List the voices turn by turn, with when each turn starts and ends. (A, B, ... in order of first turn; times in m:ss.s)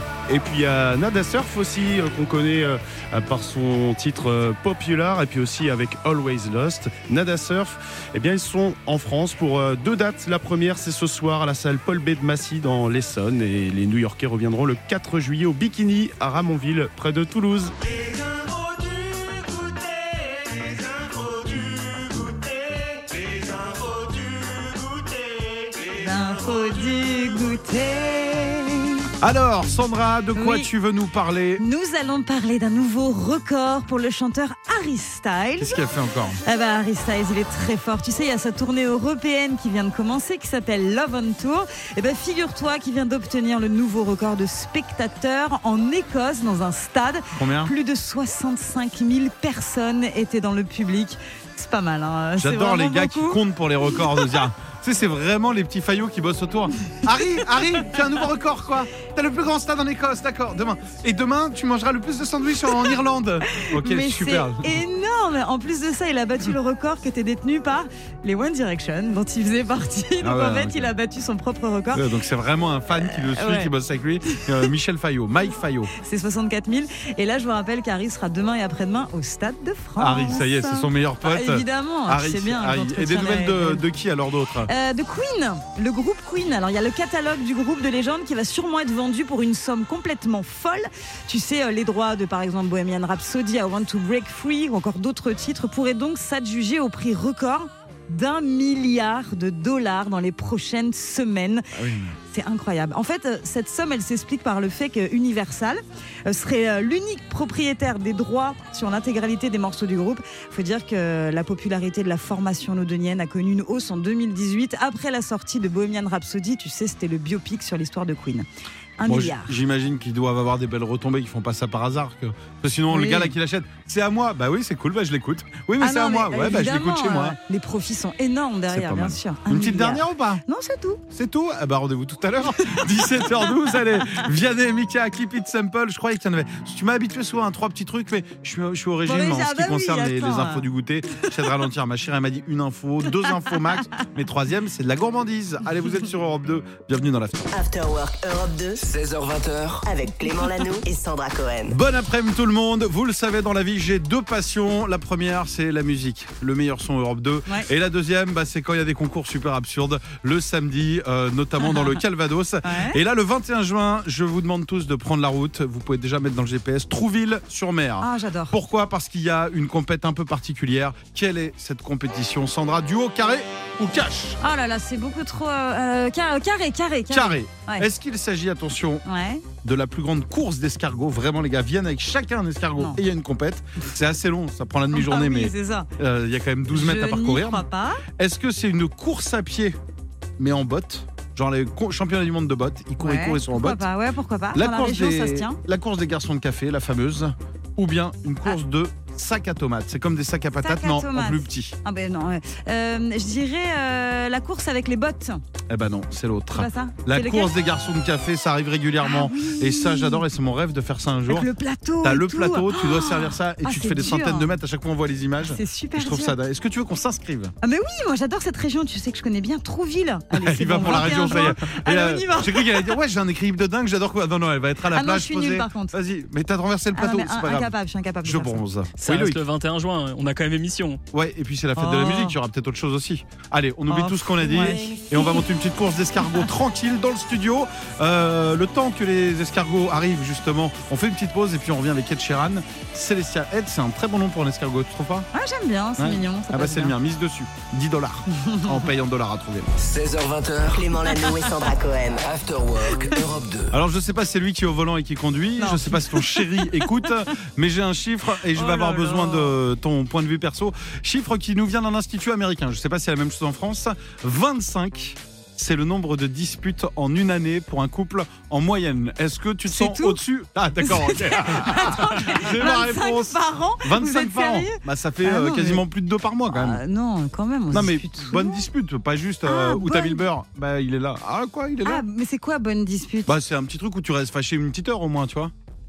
0:00.3-0:17.8 A
0:25.9-0:29.1 B
0:29.2-0:31.6 C
0:30.4-0:30.7 B
0:31.6-0:35.8 B
0:35.6-0:36.4 C
0:36.4-0:53.4 B
0:47.4-0:47.7 C
0:52.4-1:04.8 C
0:53.9-0:54.3 B
1:03.5-1:12.0 B
1:10.2-1:10.9 C
1:11.9-1:15.9 C
1:13.1-1:13.7 B
1:16.0-1:23.8 B
1:20.0-1:24.7 C
1:24.6-1:41.7 B
1:41.7-1:42.2 C
1:42.3-1:58.5 B
1:59.0-1:59.6 B
1:59.0-2:07.4 C
2:02.9-2:03.3 B
2:05.8-2:11.0 B
2:08.7-2:10.4 C
2:11.1-2:27.5 C
2:19.0-2:20.7 B
2:27.5-2:28.8 D
2:28.8-2:29.9 E
2:29.8-2:31.8 D
2:31.7-2:54.4 C
2:42.6-2:43.0 B
2:48.0-2:48.6 B
2:54.4-2:57.9 B
2:57.1-2:59.0 C
2:59.0-2:59.4 B
2:59.6-3:09.8 C
3:04.9-3:05.9 B
3:06.7-3:08.0 B
3:10.4-3:13.8 C
3:13.0-3:15.6 B
3:14.5-3:21.8 C
3:20.6-3:25.4 B
3:25.7-3:31.5 C
3:26.6-3:27.6 B
3:29.0-3:30.2 B
3:31.3-3:34.6 B
3:32.0-3:37.5 C
3:35.4-3:36.4 B
3:37.6-3:43.0 B
3:40.3-3:49.4 C
3:44.9-3:46.0 B
3:46.9-3:48.6 B
3:49.0-3:51.0 F
3:51.1-4:05.3 C
3:51.8-3:52.4 B
3:53.9-3:55.4 B
4:05.3-4:07.0 B
4:06.0-4:09.7 C
4:08.3-4:08.8 B
4:09.8-4:11.0 E
4:10.7-4:12.3 D
4:12.2-4:13.8 E
4:13.7-4:36.8 C
4:15.6-4:17.0 B
4:18.5-4:19.6 B
4:29.7-4:30.2 B
4:30.8-4:35.8 B
4:36.5-4:38.6 B
4:37.7-4:42.0 C
4:39.4-4:40.2 B
4:41.8-4:43.4 B
4:43.3-4:45.5 C